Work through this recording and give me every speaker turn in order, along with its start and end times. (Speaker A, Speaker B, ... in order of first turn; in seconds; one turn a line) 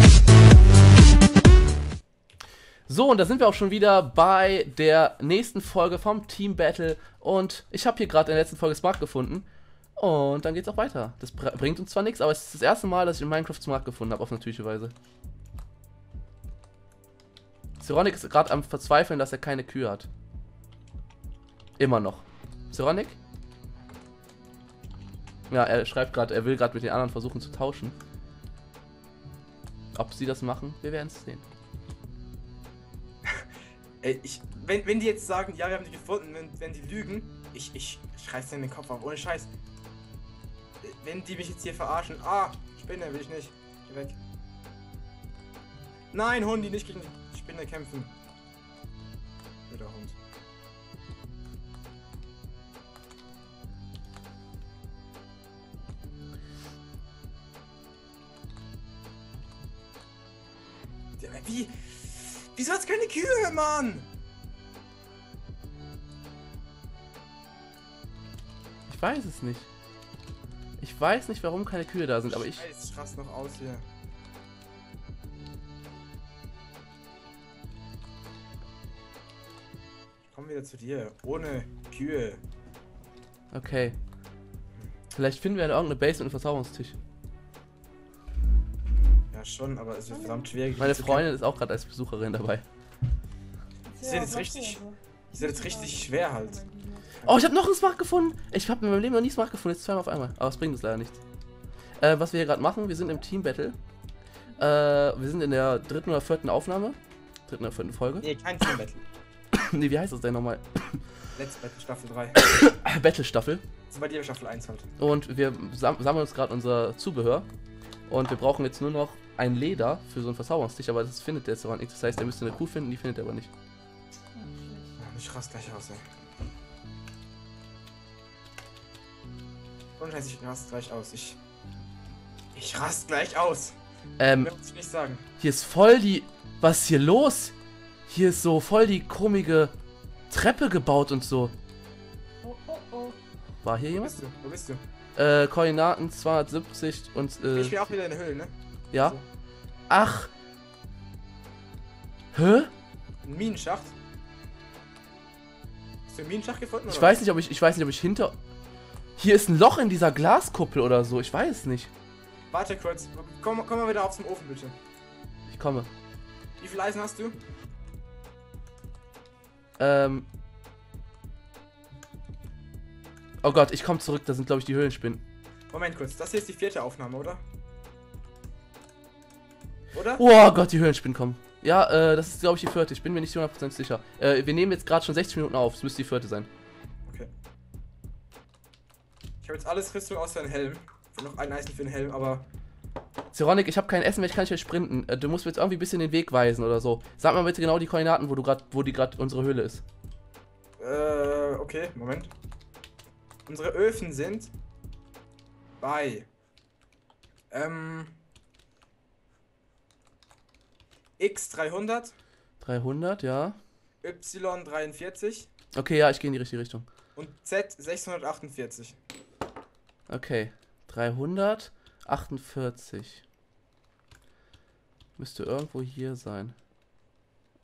Speaker A: 2.9-14.9
Speaker A: 17.8-20.1
Speaker A: 21.8-23.2
Speaker A: 25.5-27.9
Speaker A: 29.9-31.4
Speaker B: 34.0-39.5
Speaker B: 40.8-44.2
Speaker B: 46.1-48.1
Speaker B: 49.7-50.2
Speaker B: 61.2-64.1
Speaker A: 68.9-69.7
Speaker A: 70.8-72.7
Speaker B: 72.3-73.8
Speaker B: 80.3-82.4
Speaker A: 83.5-84.0
Speaker A: 85.1-87.0
Speaker B: 89.3-91.3
Speaker C: 90.1-90.5
Speaker A: 90.8-92.7
Speaker C: 93.9-97.1
Speaker B: 94.0-94.8
Speaker B: 95.3-96.6
Speaker B: 97.1-97.5
Speaker A: 97.3-101.2
Speaker A: 102.0-103.8
Speaker A: 104.6-108.3
Speaker B: 108.2-109.0
Speaker A: 109.5-111.0
Speaker B: 111.3-112.4
Speaker A: 112.4-113.6
Speaker B: 113.9-114.9
Speaker A: 115.0-117.5
Speaker A: 118.1-123.5
Speaker C: 124.3-125.0
Speaker B: 125.0-126.0
Speaker B: 130.0-131.4
Speaker B: 132.5-133.8
Speaker A: 134.2-134.5
Speaker B: 134.4-135.2
Speaker A: 135.4-137.5
Speaker A: 138.1-139.7
Speaker A: 140.3-141.6
Speaker C: 142.4-143.2
Speaker A: 143.6-144.2
Speaker B: 144.0-144.8
Speaker A: 145.2-147.9
Speaker B: 147.5-149.2
Speaker A: 148.9-149.2
Speaker A: 149.9-150.3
Speaker A: 152.3-152.7
Speaker B: 153.2-153.9
Speaker B: 156.1-157.2
Speaker A: 156.9-158.4
Speaker A: 159.2-161.9
Speaker B: 162.5-164.8
Speaker A: 165.5-165.9
Speaker B: 166.6-167.4
Speaker A: 169.8-170.3
Speaker A: 173.4-175.2
Speaker B: 175.7-177.4
Speaker B: 179.9-180.2
Speaker A: 180.2-186.5
Speaker B: 189.4-192.5
Speaker A: 193.3-199.8
Speaker B: 200.8-202.3
Speaker B: 203.5-204.5
Speaker B: 205.8-206.3
Speaker B: 207.5-208.2
Speaker B: 211.2-212.1
Speaker A: 212.6-213.6
Speaker B: 214.0-215.5
Speaker A: 215.8-216.9
Speaker B: 217.2-219.0
Speaker A: 220.1-223.2
Speaker A: 225.2-226.5